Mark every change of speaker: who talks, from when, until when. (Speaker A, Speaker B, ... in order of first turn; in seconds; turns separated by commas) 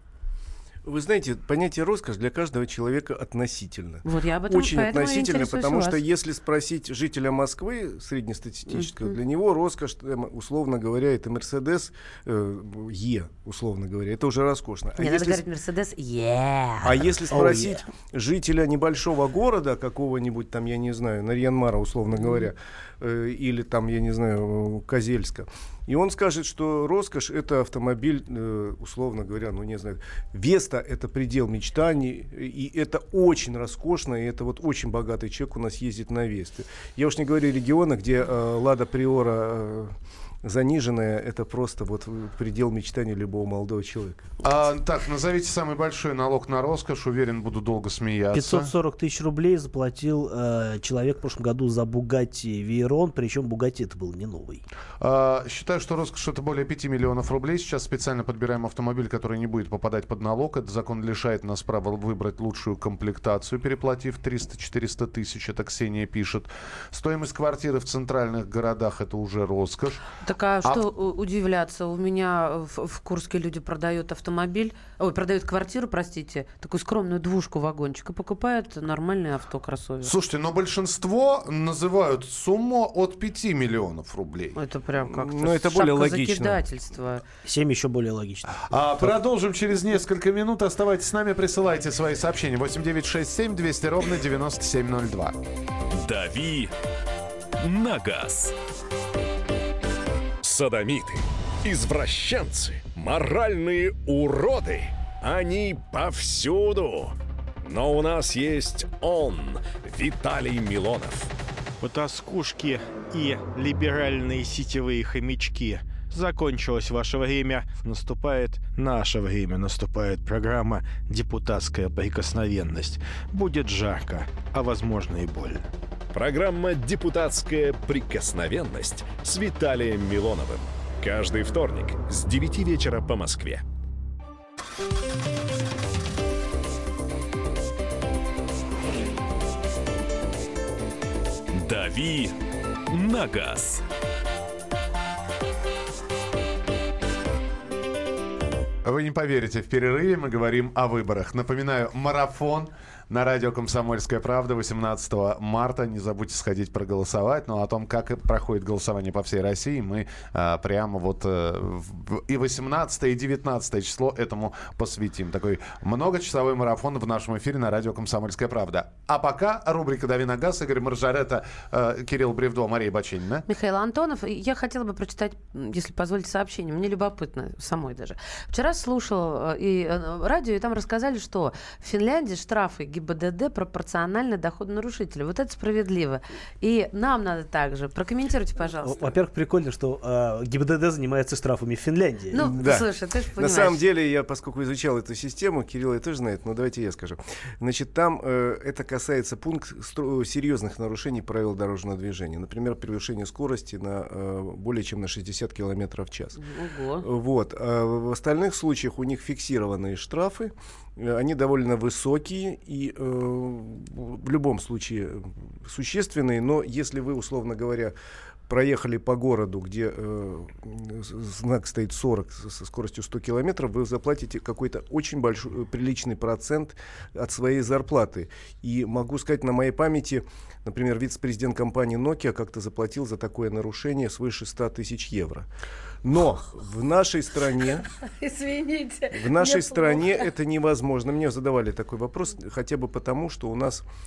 Speaker A: 0.9-15.4, Speaker B: 4.0-6.0, Speaker B: 8.7-9.2, Speaker B: 15.0-17.2, Speaker A: 16.8-44.3, Speaker C: 17.3-17.7, Speaker B: 22.2-22.5, Speaker D: 44.4-48.7, Speaker C: 48.3-54.6, Speaker D: 55.0-70.0, Speaker B: 70.2-80.1, Speaker D: 80.0-84.6, Speaker B: 84.5-87.2, Speaker A: 85.1-86.6, Speaker C: 87.5-89.1, Speaker D: 88.7-95.4, Speaker E: 95.9-96.7, Speaker E: 97.6-98.5, Speaker F: 100.4-111.3, Speaker G: 111.8-125.7, Speaker F: 126.1-133.6, Speaker E: 141.5-142.4, Speaker E: 142.9-143.8, Speaker D: 148.8-173.4, Speaker B: 173.5-189.0, Speaker C: 188.8-192.4, Speaker B: 192.3-193.8, Speaker A: 192.4-206.4, Speaker B: 206.4-207.1, Speaker A: 207.0-217.9, Speaker A: 218.5-235.5, Speaker A: 236.0-237.9, Speaker B: 238.0-240.3, Speaker A: 239.1-243.8